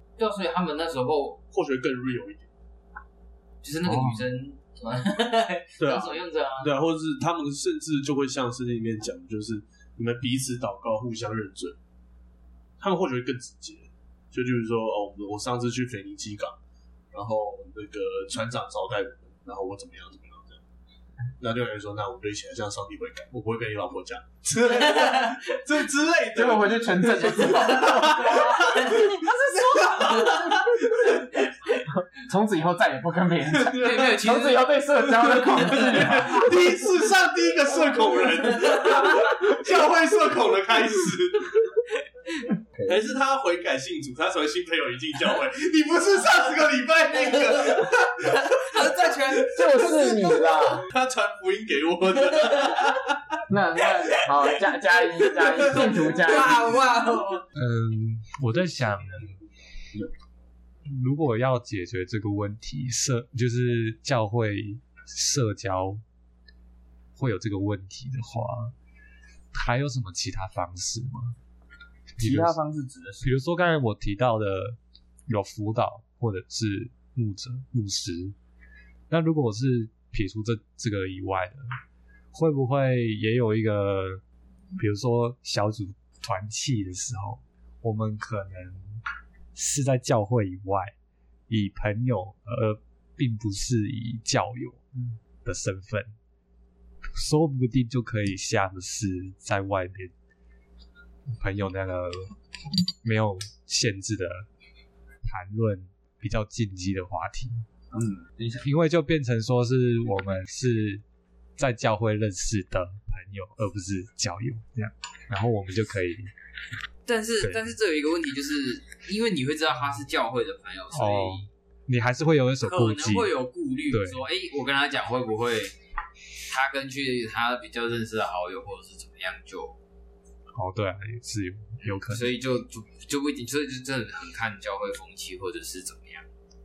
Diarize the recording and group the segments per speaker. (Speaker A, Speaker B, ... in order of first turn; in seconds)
Speaker A: 0.2-1.4, 3.6-6.7, 24.6-25.6, 27.5-29.3, 30.0-30.5, 31.5-31.8, 33.8-34.7, 47.5-49.9, 52.4-52.9, 55.3-57.5, 117.0-121.5, 122.6-125.7, 126.5-129.8, 131.8-136.2
Speaker B: 1.5-2.5, 5.8-11.8, 12.8-16.6, 17.1-20.6, 21.4-31.4, 33.7-34.3, 35.3-41.8, 42.9-53.4
Speaker C: 26.3-28.4, 32.2-36.5, 42.7-43.0, 49.5-50.9, 53.5-56.7, 72.2-73.3, 107.9-108.7
Speaker D: 57.5-59.4, 60.8-66.0, 67.2-68.7, 69.5-71.3, 72.2-72.6, 73.2-78.3, 79.1-81.7, 82.3-84.2, 84.8-89.0, 89.5-90.9, 91.5-94.8, 95.4-96.1, 97.1-100.1, 101.4-102.3, 103.0-104.5, 105.2-107.6, 108.6-111.0, 111.6-116.3, 117.4-117.7, 120.9-123.3, 123.9-124.2, 130.5-132.3